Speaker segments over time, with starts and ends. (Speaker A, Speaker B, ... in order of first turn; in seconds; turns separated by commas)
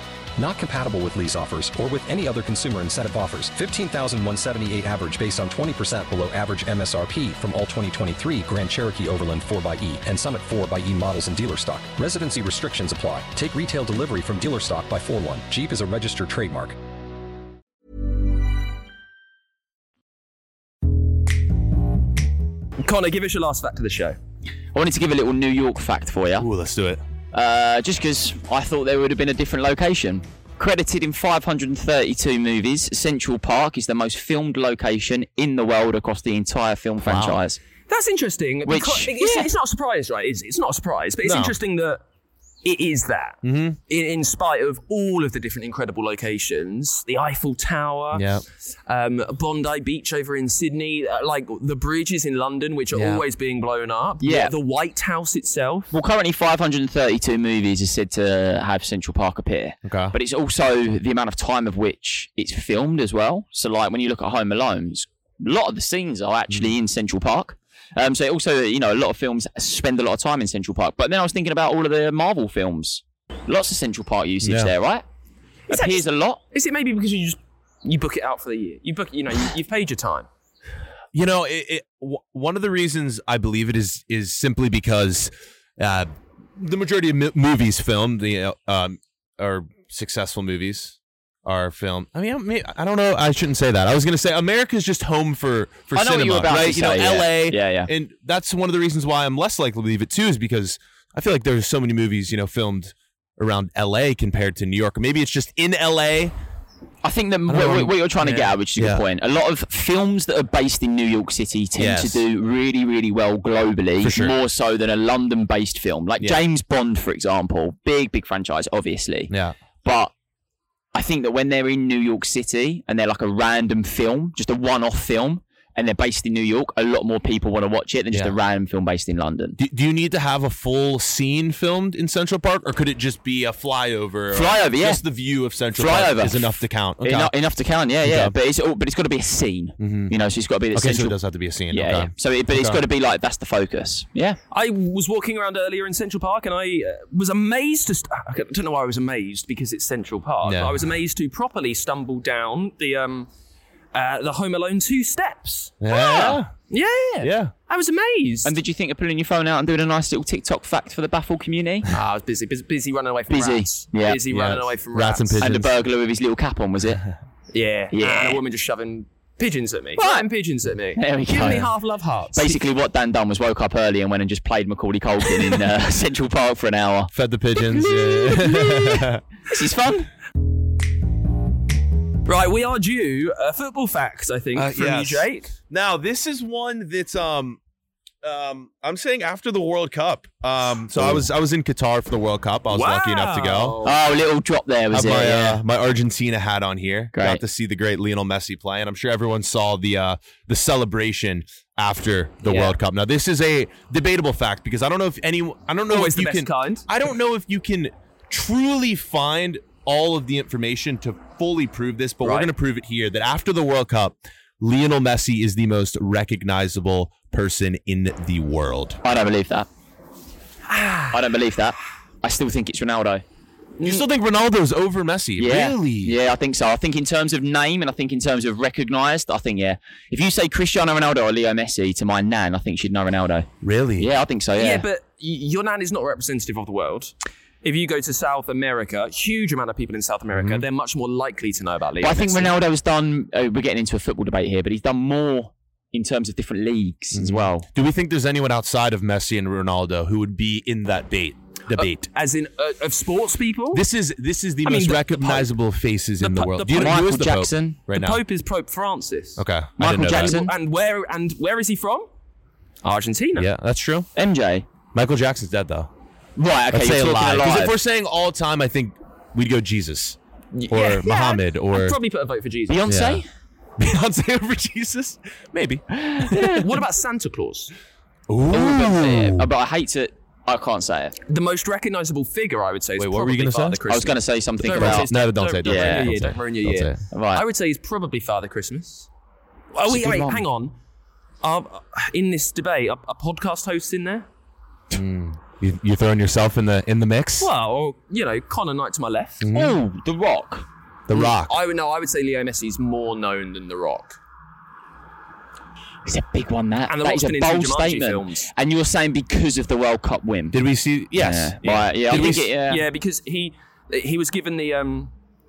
Speaker A: 0.4-16.8, Speaker B: 22.8-24.2, Speaker C: 24.7-26.5, Speaker D: 26.4-27.0, Speaker C: 27.3-37.6, Speaker D: 37.0-37.4, Speaker B: 37.9-42.0, Speaker C: 38.7-39.5, Speaker D: 41.2-41.5, Speaker B: 42.6-48.3, Speaker D: 43.4-43.8, Speaker D: 48.1-48.4, Speaker B: 48.9-55.9, Speaker D: 52.9-53.2, Speaker C: 54.2-54.5, Speaker C: 55.9-75.0, Speaker D: 59.8-60.1, Speaker D: 74.4-74.7, Speaker B: 75.7-80.3, Speaker C: 75.7-76.4, Speaker D: 81.1-106.3, Speaker C: 95.9-97.9, Speaker C: 107.0-119.3, Speaker D: 107.5-108.0, Speaker B: 108.2-108.5, Speaker D: 108.8-109.0, Speaker D: 111.8-112.2, Speaker D: 114.0-114.4, Speaker D: 119.3-119.6, Speaker C: 119.8-120.1, Speaker C: 120.9-129.6, Speaker D: 129.6-137.3, Speaker C: 134.3-135.0, Speaker C: 135.8-141.2, Speaker D: 138.0-138.3, Speaker D: 139.8-140.2, Speaker D: 140.8-142.8, Speaker C: 141.7-144.4, Speaker B: 144.5-153.3, Speaker D: 150.4-150.8, Speaker B: 153.9-158.5, Speaker D: 155.8-156.5, Speaker D: 157.2-157.5, Speaker C: 158.4-161.9, Speaker B: 161.9-165.6, Speaker C: 163.3-164.2, Speaker D: 164.3-165.7, Speaker C: 165.4-167.1, Speaker B: 167.5-172.6, Speaker C: 167.9-168.4, Speaker C: 170.0-170.3, Speaker C: 171.0-171.7, Speaker C: 172.3-177.1, Speaker D: 177.1-179.2, Speaker C: 177.8-180.1, Speaker B: 182.3-185.5, Speaker D: 184.6-187.6, Speaker D: 188.2-193.8, Speaker B: 192.7-194.0, Speaker C: 193.8-195.6, Speaker D: 194.9-219.0, Speaker C: 197.1-197.4, Speaker B: 205.9-206.9, Speaker B: 212.2-212.5, Speaker C: 219.0-219.7, Speaker B: 220.7-221.1, Speaker C: 221.1-223.2, Speaker D: 223.8-226.2, Speaker C: 225.4-234.8, Speaker D: 233.6-234.1, Speaker B: 234.6-242.5, Speaker D: 240.3-240.6, Speaker C: 242.0-247.7, Speaker D: 247.1-252.1, Speaker B: 251.7-253.8, Speaker D: 253.7-258.2, Speaker B: 254.6-255.5, Speaker B: 256.2-257.1, Speaker C: 256.7-257.8, Speaker B: 257.9-262.1, Speaker D: 259.4-260.5, Speaker C: 259.8-260.5, Speaker B: 262.8-263.5, Speaker D: 263.4-264.1, Speaker C: 264.1-264.7, Speaker D: 264.9-265.9, Speaker C: 266.4-267.8, Speaker D: 266.7-270.2, Speaker B: 270.5-272.8, Speaker D: 270.7-272.0, Speaker C: 272.7-273.3, Speaker D: 272.9-273.2, Speaker D: 273.8-276.7, Speaker B: 276.3-277.7, Speaker D: 278.3-279.5, Speaker C: 278.5-281.1, Speaker B: 281.3-289.1, Speaker D: 283.0-283.8, Speaker C: 283.9-285.1, Speaker D: 284.6-287.0, Speaker C: 285.6-286.1, Speaker C: 287.1-287.4, Speaker B: 289.7-290.7, Speaker C: 289.9-290.4, Speaker B: 291.4-294.3, Speaker D: 294.9-297.5, Speaker B: 297.4-299.5, Speaker D: 299.4-299.8, Speaker C: 299.5-300.6, Speaker D: 301.1-301.6, Speaker B: 301.1-304.2, Speaker C: 306.1-310.6, Speaker B: 306.9-308.5, Speaker D: 310.5-312.5, Speaker C: 311.1-312.8, Speaker B: 312.1-315.1